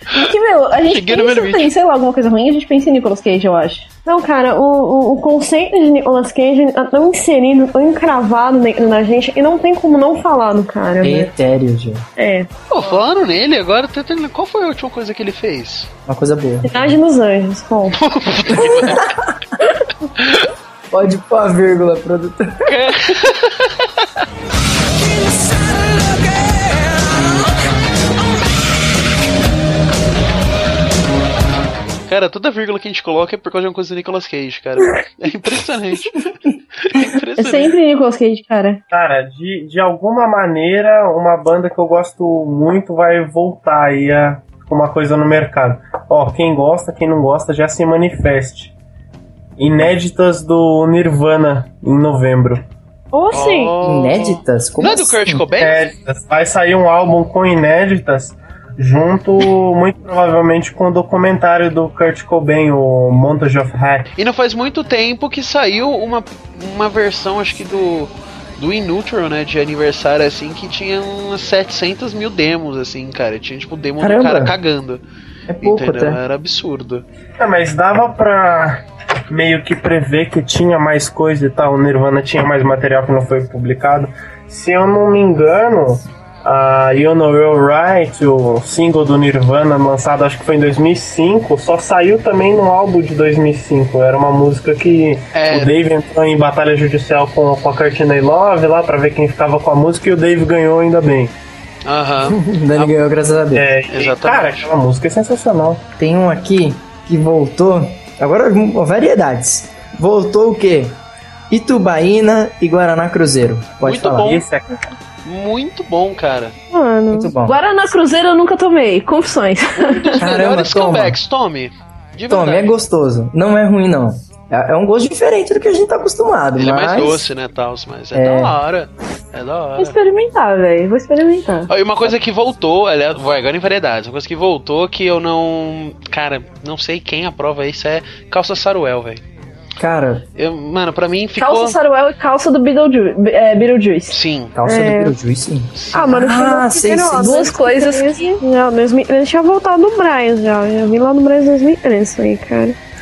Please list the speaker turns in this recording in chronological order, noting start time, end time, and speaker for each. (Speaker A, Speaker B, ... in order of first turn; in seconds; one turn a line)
Speaker A: 0.1-3.9
Speaker B: 0.9-1.7
Speaker C: 4.1-11.3
Speaker D: 11.0-12.1
Speaker C: 12.2-13.0
Speaker B: 12.7-15.9
Speaker D: 16.1-17.0
Speaker C: 16.6-18.0
Speaker B: 18.0-19.2
Speaker D: 18.6-19.1
Speaker B: 20.2-20.5
Speaker D: 20.9-22.8
Speaker B: 22.6-24.1
Speaker B: 32.1-37.8
Speaker A: 37.4-38.8
Speaker E: 38.9-48.7
Speaker E: 49.6-52.6
Speaker C: 53.1-53.7
Speaker B: 53.3-55.9
Speaker D: 53.8-55.5
Speaker E: 55.6-64.1
Speaker B: 64.2-75.0
Speaker D: 74.0-74.6
Speaker D: 75.5-76.2
Speaker B: 75.6-77.0
Speaker E: 77.4-101.3
Speaker B: 95.3-95.7
Speaker B: 101.8-103.0
Speaker D: 102.2-103.7
Speaker E: 103.5-105.8
Speaker B: 103.9-104.7
Speaker D: 106.0-114.4
Speaker B: 113.8-114.5
Speaker E: 114.2-114.9
Speaker B: 115.2-116.6
Speaker C: 116.7-117.3
Speaker D: 117.1-117.6
Speaker A: 117.4-120.2
Speaker B: 119.8-122.7
Speaker D: 120.2-121.2
Speaker D: 122.3-127.3
Speaker B: 126.6-130.0
Speaker D: 128.1-128.6
Speaker A: 129.8-131.7
Speaker B: 131.7-139.2
Speaker D: 139.8-140.2
Speaker B: 140.4-141.8
Speaker A: 141.4-144.2
Speaker B: 144.1-144.6
Speaker D: 144.6-147.5
Speaker C: 144.7-145.2
Speaker B: 145.8-146.3
Speaker C: 145.9-152.8
Speaker A: 147.2-148.4